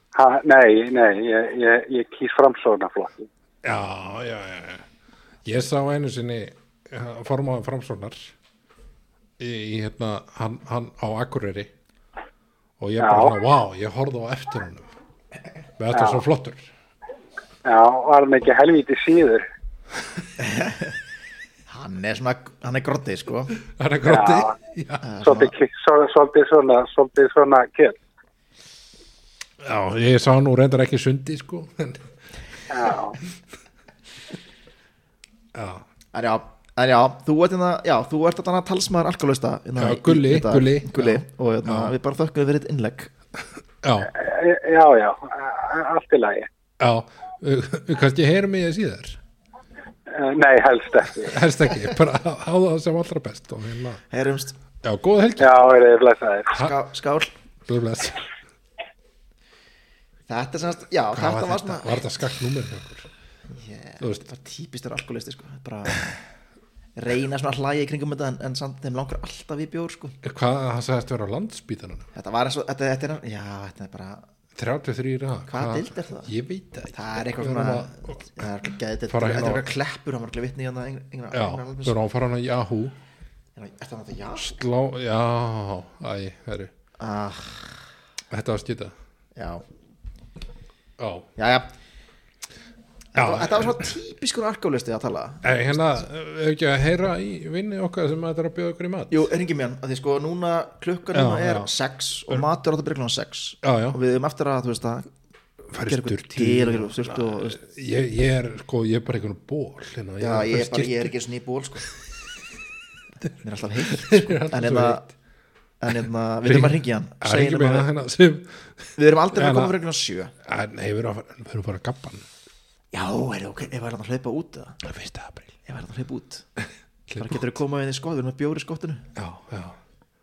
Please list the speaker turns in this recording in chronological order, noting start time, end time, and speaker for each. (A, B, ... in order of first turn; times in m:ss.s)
0:00.1-0:03.3 A
0:03.6-0:04.8 B
0:05.4-0:08.3 B
0:09.4-0:11.7 B
0:12.8-0:14.9 B
0:13.0-0:13.3 A
0:15.8-0:16.7 B
0:15.9-0:16.2 A
0:17.6-0:19.4 A
0:20.4-0:20.9 C
0:21.7-0:23.5 C
0:23.6-0:25.0 B
0:24.0-0:24.5 A
0:25.0-0:25.5 C
0:25.2-0:28.0 A
0:29.6-0:32.0 B
0:32.7-0:33.2 A
0:35.5-0:35.8 B
0:36.1-0:43.1 C
0:39.8-0:41.9 B
0:43.8-0:44.1 B
0:44.0-0:46.5 A
0:46.8-0:49.2 B
0:50.1-0:51.4 A
0:51.2-0:54.0 B
0:54.1-0:54.6 C
0:54.8-0:55.5 B
0:55.4-0:56.6 A
0:56.5-0:57.3 C
0:57.6-0:58.2 B
1:00.3-1:02.0 C
1:01.1-1:03.1 B
1:03.5-1:06.1 C
1:04.0-1:04.2 B
1:07.0-1:10.2 C
1:10.2-1:12.1 B
1:12.1-1:14.2 C
1:14.5-1:18.4 B
1:15.5-1:16.3 C
1:16.9-1:22.0 C
1:19.1-1:19.7 B
1:21.3-1:22.9 B
1:23.6-1:24.5 C
1:24.4-1:26.7 B
1:27.0-1:27.8 C
1:28.3-1:28.9 B
1:29.4-1:29.6 C
1:31.0-1:31.3 B
1:31.4-1:31.7 C
1:33.1-1:35.7 C
1:33.2-1:33.8 B
1:35.4-1:39.3 B
1:39.1-1:45.1 C
1:41.1-1:41.7 B
1:43.6-1:44.0 B
1:45.7-1:51.1 B
1:45.8-1:47.6 C
1:50.2-1:51.9 C
1:53.4-1:55.0 C
1:53.9-1:55.1 B
1:55.8-1:57.9 C
1:56.4-1:59.7 B
1:59.0-2:00.3 C
2:00.4-2:02.3 B
2:02.9-2:04.8 C
2:04.8-2:05.6 B
2:05.6-2:06.4 C
2:07.1-2:07.4 B
2:07.2-2:09.1 C
2:09.2-2:09.8 B